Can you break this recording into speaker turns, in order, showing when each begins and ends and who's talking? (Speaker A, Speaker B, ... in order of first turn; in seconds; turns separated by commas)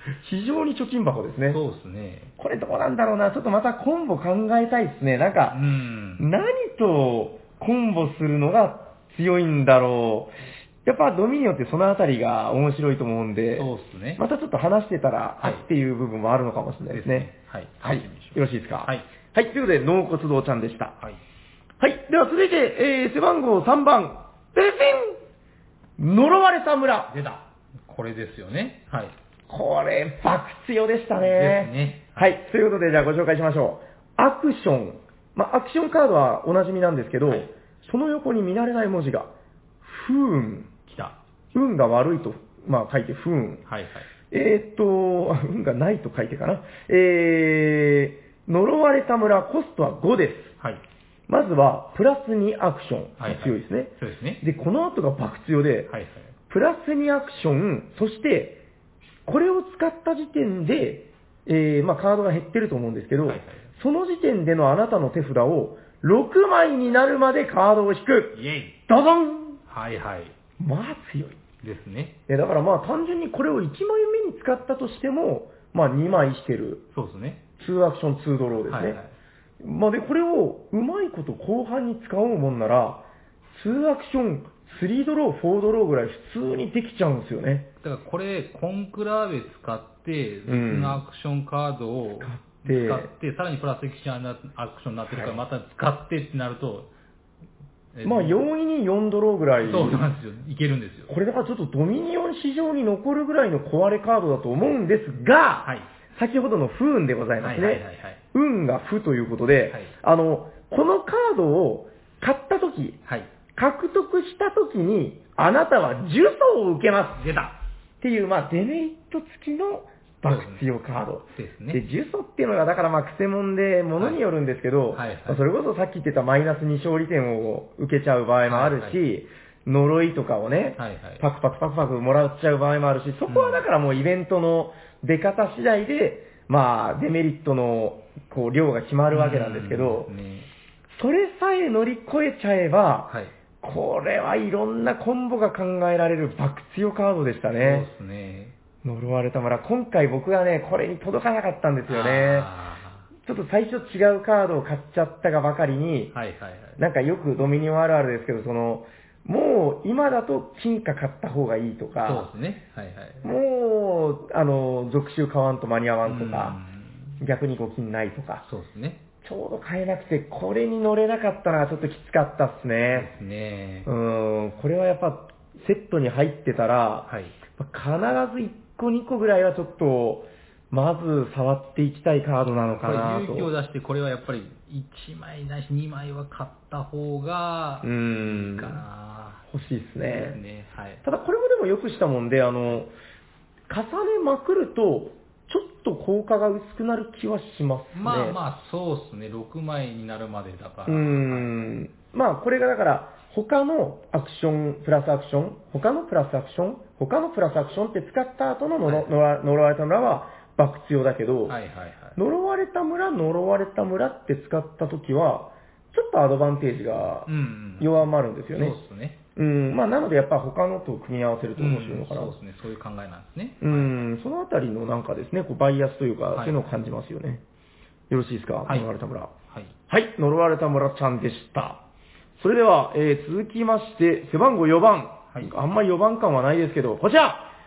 Speaker A: 0.2-1.6, Speaker B: 1.5-2.3, Speaker A: 2.4-5.6, Speaker B: 5.5-6.3, Speaker A: 6.2-10.3, Speaker A: 10.8-17.3, Speaker B: 13.6-14.2, Speaker B: 16.9-19.1, Speaker A: 17.8-21.0, Speaker A: 21.8-25.2, Speaker A: 26.0-27.1, Speaker B: 27.1-29.1, Speaker A: 29.5-39.3, Speaker B: 31.2-32.4, Speaker A: 39.8-40.7, Speaker B: 40.9-41.2, Speaker A: 41.5-43.6, Speaker B: 43.7-44.1, Speaker A: 44.3-50.5, Speaker A: 51.3-55.9, Speaker B: 53.2-54.4, Speaker B: 55.9-56.3, Speaker A: 56.5-58.6, Speaker A: 59.3-69.6, Speaker B: 63.2-63.7, Speaker B: 68.3-68.8, Speaker B: 69.7-70.3, Speaker A: 70.6-71.4, Speaker B: 71.6-72.2, Speaker A: 72.3-76.9, Speaker B: 76.9-77.4, Speaker A: 77.6-79.0, Speaker B: 78.7-79.1, Speaker A: 79.6-87.7, Speaker B: 87.8-96.9, Speaker A: 90.5-91.0, Speaker A: 92.2-93.1, Speaker A: 95.1-95.4, Speaker B: 97.9-98.4, Speaker A: 98.0-100.0, Speaker B: 99.6-101.1, Speaker A: 101.1-107.8, Speaker B: 107.4-108.2, Speaker A: 108.3-113.0, Speaker A: 113.5-117.3, Speaker B: 117.2-117.5, Speaker A: 118.0-140.1, Speaker B: 120.3-120.6, Speaker B: 121.3-121.8, Speaker B: 124.9-125.4, Speaker B: 128.4-129.0, Speaker B: 130.8-131.2, Speaker B: 133.3-133.6, Speaker B: 139.1-140.5, Speaker A: 140.9-147.9, Speaker B: 147.5-148.6, Speaker A: 148.8-152.5, Speaker B: 151.9-153.1, Speaker A: 153.2-156.1, Speaker B: 156.1-156.8, Speaker A: 156.8-162.3, Speaker B: 162.1-163.3, Speaker A: 163.2-166.6, Speaker B: 166.1-167.2, Speaker A: 167.2-168.4, Speaker B: 168.4-169.0, Speaker A: 169.2-173.1, Speaker B: 172.9-173.9, Speaker A: 173.9-183.5, Speaker B: 177.1-177.3, Speaker B: 182.5-189.4, Speaker A: 187.8-188.8, Speaker A: 189.5-190.4, Speaker B: 190.1-191.0, Speaker A: 191.0-192.9, Speaker A: 193.7-198.4, Speaker B: 197.9-201.7, Speaker A: 200.9-211.6, Speaker B: 208.8-209.1, Speaker B: 211.5-212.2, Speaker A: 212.2-218.8, Speaker B: 217.3-219.2, Speaker A: 219.4-222.3, Speaker B: 221.6-224.0, Speaker A: 223.6-227.4, Speaker B: 226.3-226.7, Speaker A: 228.1-229.3, Speaker A: 229.9-231.8, Speaker A: 232.4-237.5